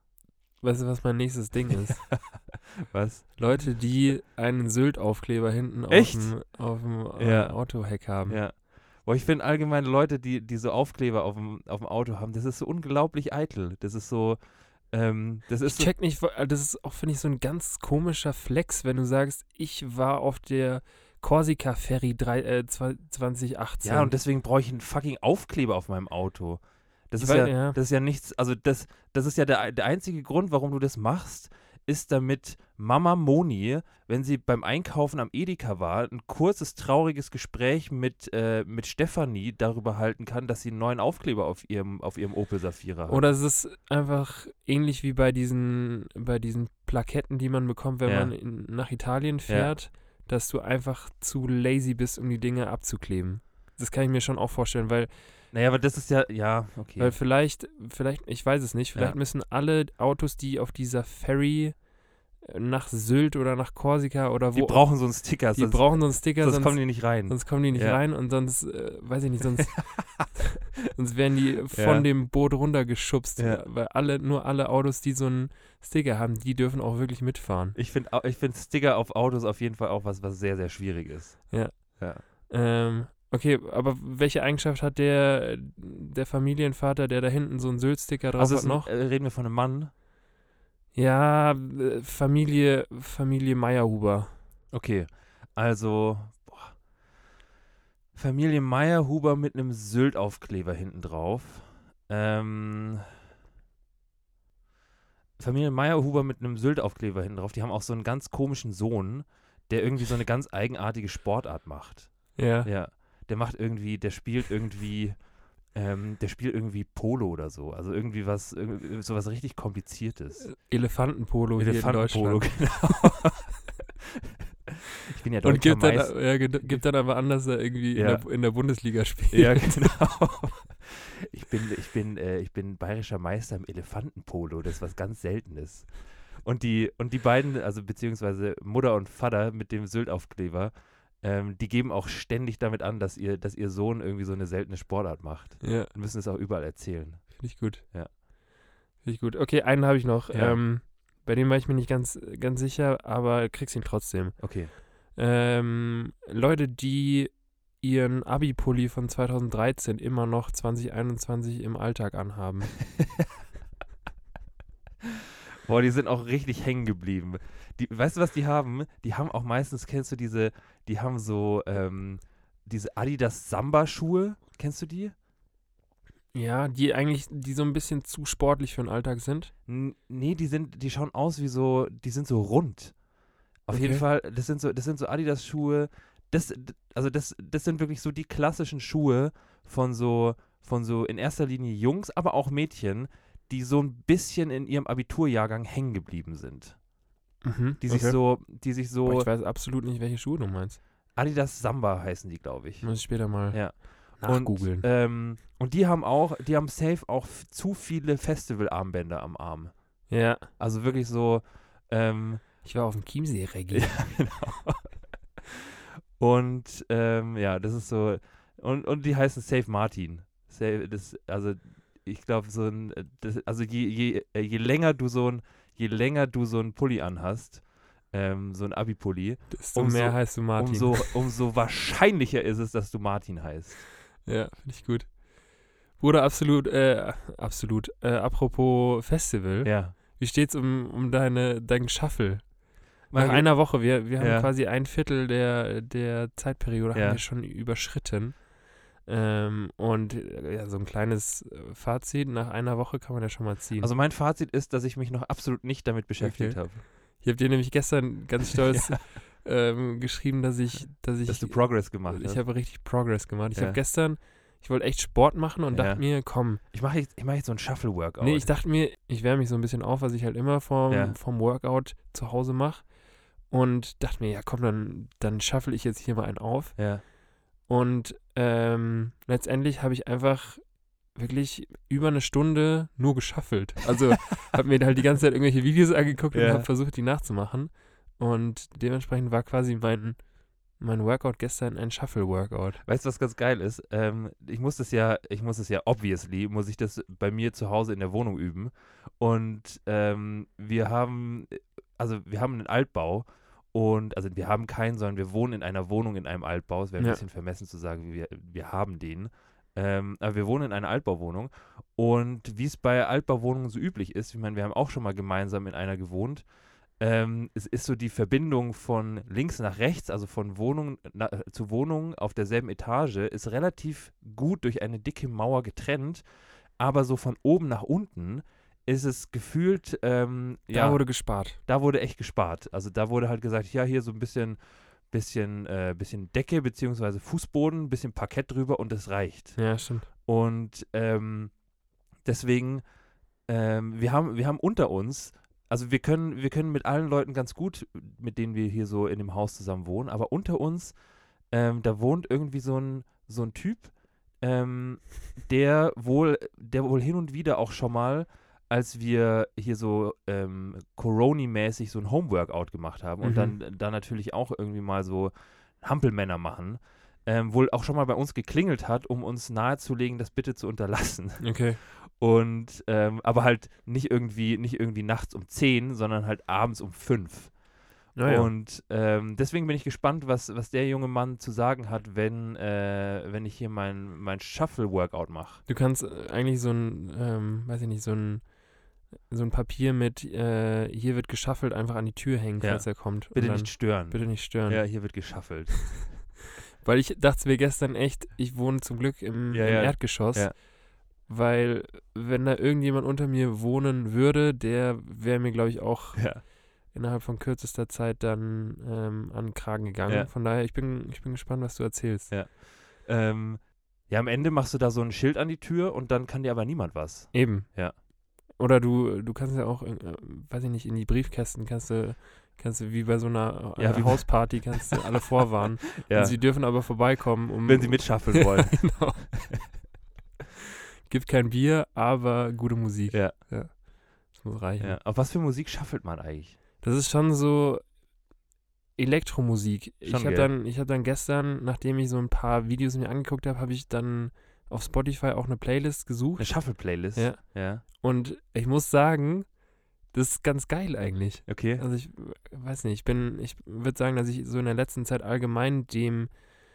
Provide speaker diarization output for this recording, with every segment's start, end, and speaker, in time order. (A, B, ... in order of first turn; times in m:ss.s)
0:00.6-0:02.0 A
0:01.8-0:03.7 B
0:03.4-0:08.4 A
0:05.9-0:06.4 B
0:07.2-0:15.9 B
0:15.6-0:24.1 A
0:23.8-0:43.2 B
0:27.2-0:27.8 A
0:43.1-0:55.1 A
0:48.0-0:48.3 B
0:49.5-0:49.7 B
0:55.5-0:57.1 B
0:57.0-1:01.8 A
1:02.4-1:17.8 A
1:04.5-1:08.0 B
1:09.6-1:10.2 B
1:11.7-1:12.1 B
1:13.4-1:13.6 B
1:17.7-1:22.2 B
1:21.5-1:28.9 A
1:28.4-1:29.9 B
1:30.9-1:34.3 A
1:34.7-1:36.8 B
1:38.1-1:43.0 B
1:45.4-2:00.5 B
1:52.4-1:52.7 A
2:00.4-2:02.7 A
2:01.6-2:06.8 B
2:05.4-2:09.9 A
2:07.9-2:08.2 B
2:09.3-2:28.1 B
2:25.6-2:25.9 A
2:27.4-2:27.8 A
2:29.0-2:42.7 A
2:30.3-2:30.6 B
2:34.4-2:34.7 B
2:43.0-2:43.2 B
2:45.6-2:55.1 B
2:56.3-2:59.5 A
2:59.7-3:02.9 B
3:03.7-3:16.8 B
3:03.7-3:04.0 A
3:17.4-3:18.2 A
3:17.8-3:19.3 B
3:19.0-3:20.8 A
3:21.1-3:32.5 B
3:22.8-3:24.8 A
3:30.1-3:30.5 A
3:32.6-3:34.0 A
3:33.7-3:34.9 B
3:35.4-3:53.8 B
3:49.5-3:51.2 A
3:54.2-3:55.2 A
3:56.0-4:02.5 A
3:59.6-4:00.0 B
4:03.1-4:08.5 A
4:03.1-4:04.5 B
4:06.9-4:07.2 B
4:09.0-4:13.9 A
4:13.8-4:16.8 B
4:16.2-4:26.6 A
4:18.7-4:19.0 B
4:21.3-4:22.4 B
4:25.7-4:28.5 B
4:28.2-4:32.9 A
4:30.9-4:31.2 B
4:33.4-4:37.1 A
4:36.8-4:37.0 B
4:37.6-4:50.2 A
4:46.3-4:46.7 B
4:50.7-4:52.8 A
4:52.8-5:16.4 B
5:17.0-5:26.2 B
5:26.8-5:34.6 B
5:30.7-5:31.6 A
5:35.1-5:39.6 B
5:39.6-5:40.1 A
5:40.2-5:41.5 B
5:42.2-5:42.8 B
5:43.5-5:50.9 B
5:51.5-6:17.6 B
6:03.2-6:03.6 A
6:11.4-6:11.8 A
6:18.2-6:18.5 A
6:18.2-6:25.6 B
6:25.7-6:28.6 A
6:29.2-6:35.1 A
6:32.6-6:36.1 B
6:36.8-6:40.7 A
6:39.5-6:40.6 B
6:41.2-6:52.3 A
6:46.2-6:46.4 B
6:52.3-6:58.0 B
6:57.3-6:57.7 A
6:58.5-7:09.5 A
7:03.8-7:06.4 B
7:07.6-7:09.6 B
7:11.1-7:15.0 A
7:13.1-7:13.4 B
7:14.8-7:16.6 B
7:16.8-7:17.9 A
7:19.0-7:29.5 A
7:20.0-7:20.5 B
7:26.4-7:27.8 B
7:30.1-7:36.3 A
7:31.5-7:31.8 B